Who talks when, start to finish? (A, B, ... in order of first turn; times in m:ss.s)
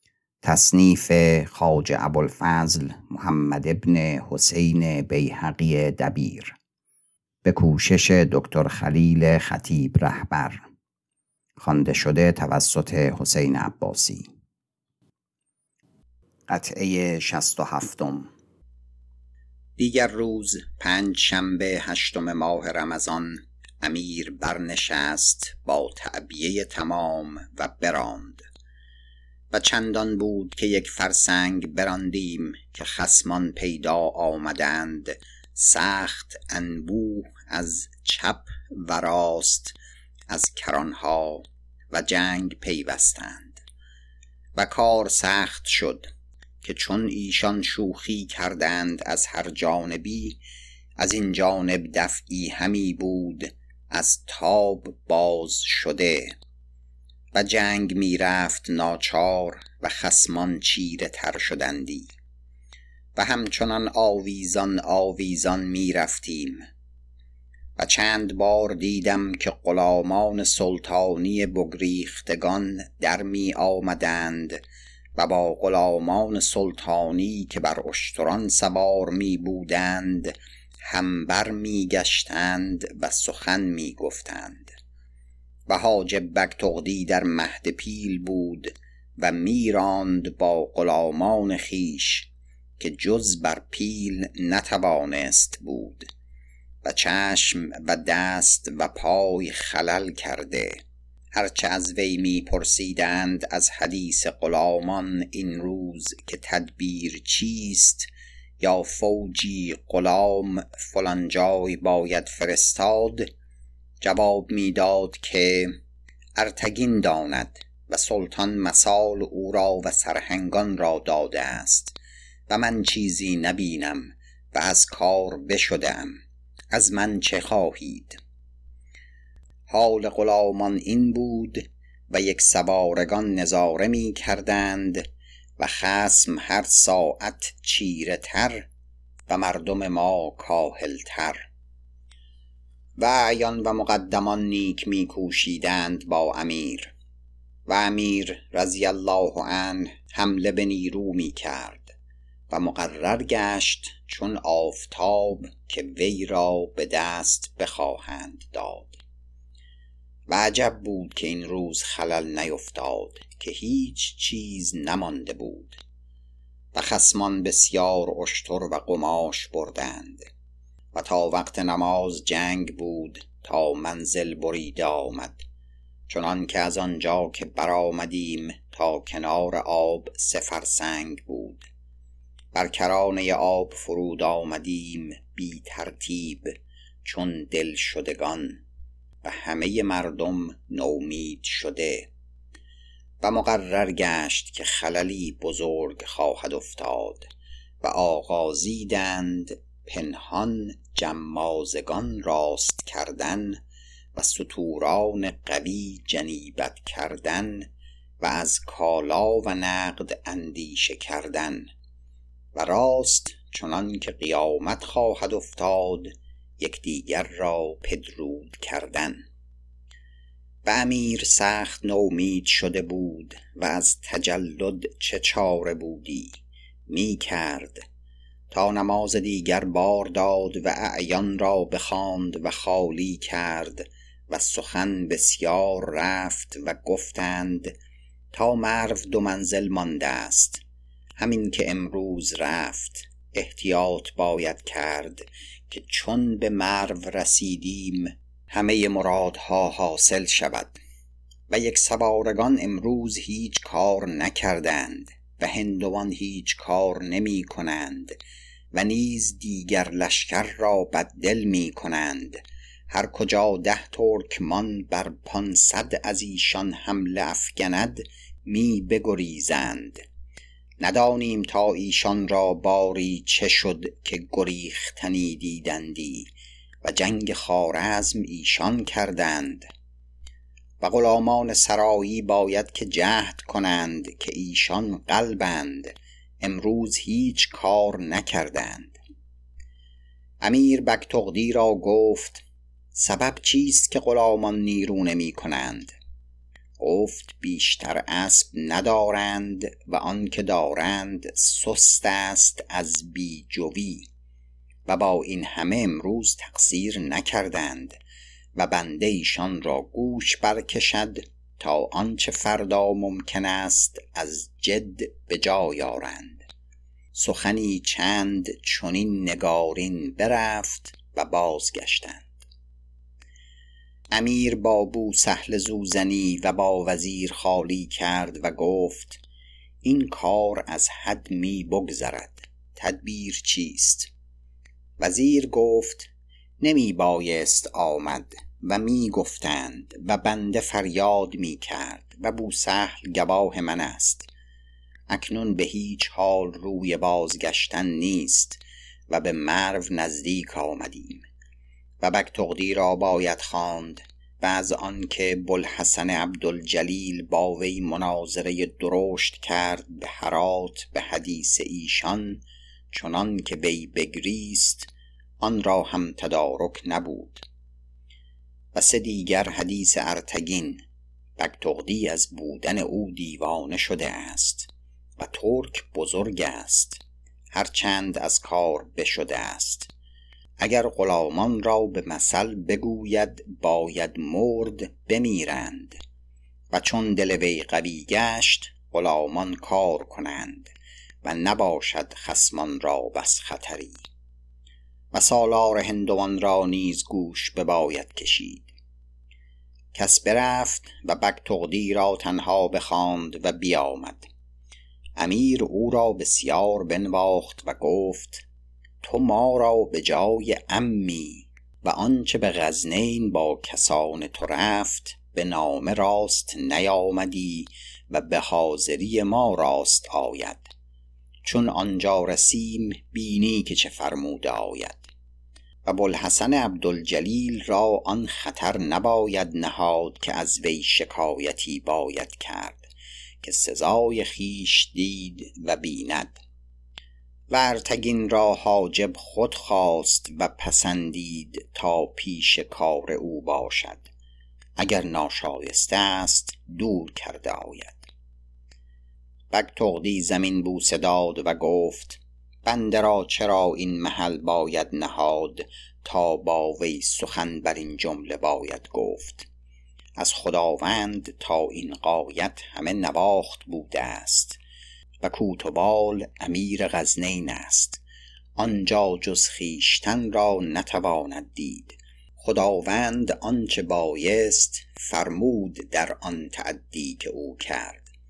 0:00.4-0:06.6 A
0:07.4-0:10.7 A
0:11.6-0:14.3 A
0:16.5-0:18.3 A
0:19.8-0:28.4 A
0:29.5-0:39.8 A
0:40.3-0:43.6 A
0:44.6-0:46.1 A
0:46.6-0:50.4 A
0:51.0-0:56.4 A
0:57.3-1:02.1 A
1:03.2-1:06.6 A
1:07.8-1:14.6 A
1:15.2-1:20.3 A
1:20.9-1:24.8 A
1:25.7-1:36.1 A
1:36.8-1:40.8 A
1:41.4-1:48.1 A
1:48.6-1:53.3 A
1:54.0-1:55.8 A
1:56.4-2:02.0 A
2:02.5-2:06.2 A
2:06.7-2:08.2 A
2:09.7-2:15.1 A
2:15.6-2:18.7 A
2:19.3-2:21.5 A
2:23.0-2:26.9 A
2:27.7-2:32.0 A
2:32.5-2:39.0 A
2:40.3-2:45.8 A
2:46.7-2:50.3 A
2:50.9-2:55.4 A
2:56.1-3:01.7 A
3:02.5-3:06.5 A
3:07.0-3:08.6 A
3:09.2-3:12.1 A
3:13.2-3:17.3 A
3:17.8-3:23.6 A
3:24.2-3:27.7 A
3:28.2-3:31.7 A
3:32.6-3:39.2 A
3:40.6-3:47.8 A
3:48.5-3:57.7 A
3:58.3-4:00.6 A
4:01.2-4:10.8 A
4:11.5-4:18.2 A
4:18.7-4:30.0 A
4:30.8-4:36.3 A
4:36.8-4:39.7 A
4:40.8-4:49.0 A
4:50.4-4:56.0 A
4:56.8-5:04.1 A
5:04.9-5:08.0 A
5:08.6-5:16.4 A
5:17.1-5:22.3 A
5:24.1-5:29.2 A
5:29.8-5:34.1 A
5:35.0-5:36.1 A
5:36.6-5:44.3 A
5:45.1-5:51.2 A
5:52.0-6:04.9 A
6:05.4-6:07.4 A
6:08.7-6:10.8 A
6:11.4-6:17.0 A
6:17.5-6:19.9 A
6:20.6-6:26.0 A
6:26.7-6:34.0 A
6:35.1-6:38.7 A
6:39.9-6:44.3 A
6:45.2-6:48.4 A
6:49.0-7:00.7 A
7:01.4-7:05.1 A
7:05.8-7:12.9 A
7:13.4-7:16.4 A
7:17.5-7:24.1 A
7:24.8-7:28.1 A
7:29.5-7:39.5 A
7:40.2-7:44.6 A
7:45.2-7:48.0 A
7:48.6-7:58.1 A